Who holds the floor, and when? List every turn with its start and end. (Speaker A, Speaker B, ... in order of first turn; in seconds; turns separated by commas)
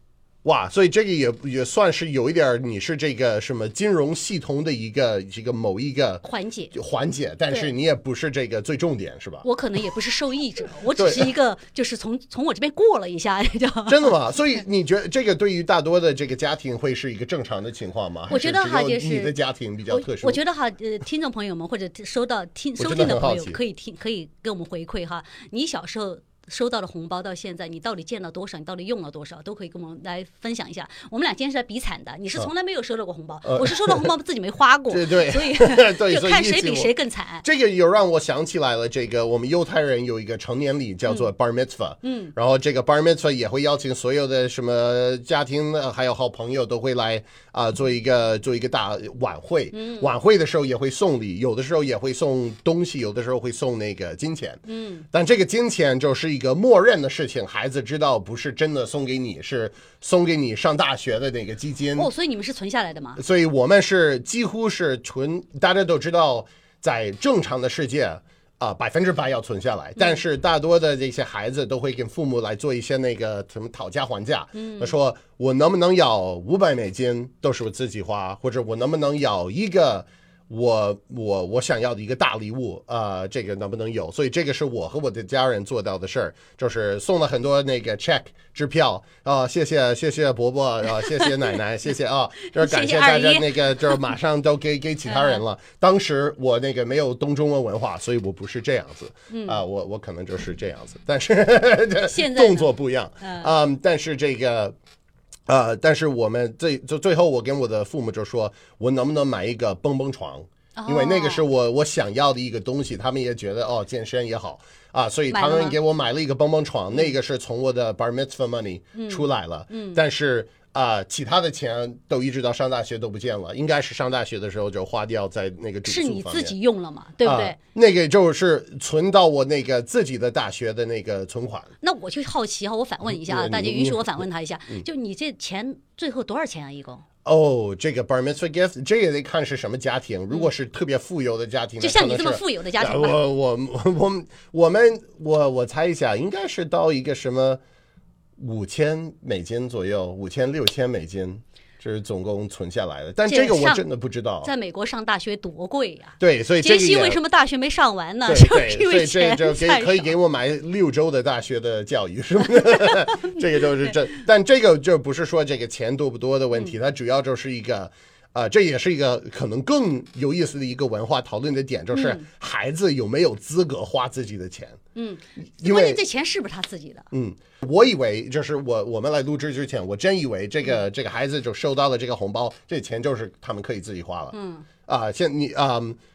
Speaker A: 0.4-9.4, Speaker B: 6.2-6.7, Speaker B: 9.4-14.1, Speaker A: 10.9-11.3, Speaker A: 13.9-20.4, Speaker B: 18.3-19.3, Speaker B: 19.9-37.5, Speaker A: 22.8-23.6, Speaker A: 33.4-34.1, Speaker A: 34.9-36.9, Speaker A: 37.4-62.1, Speaker B: 42.0-42.3, Speaker B: 49.7-50.1, Speaker B: 54.6-55.0, Speaker B: 62.0-63.2, Speaker A: 63.2-104.8, Speaker B: 74.5-74.9, Speaker B: 91.0-91.5, Speaker B: 92.5-94.0, Speaker B: 95.0-95.4, Speaker B: 99.3-99.6, Speaker B: 102.0-103.5, Speaker A: 105.5-126.5, Speaker B: 110.8-111.4, Speaker B: 115.3-115.8, Speaker B: 118.9-120.0, Speaker B: 125.8-127.6, Speaker A: 127.2-131.7, Speaker B: 131.8-137.0, Speaker A: 133.1-134.8, Speaker A: 137.2-147.6, Speaker B: 141.8-143.2, Speaker A: 148.4-154.5, Speaker B: 153.3-153.8, Speaker B: 154.4-160.1, Speaker A: 156.2-157.2, Speaker A: 158.2-174.8, Speaker B: 162.6-163.9, Speaker B: 171.9-172.3, Speaker B: 174.9-177.1, Speaker A: 175.6-176.0, Speaker A: 177.1-184.3, Speaker B: 184.3-184.7, Speaker A: 184.9-186.0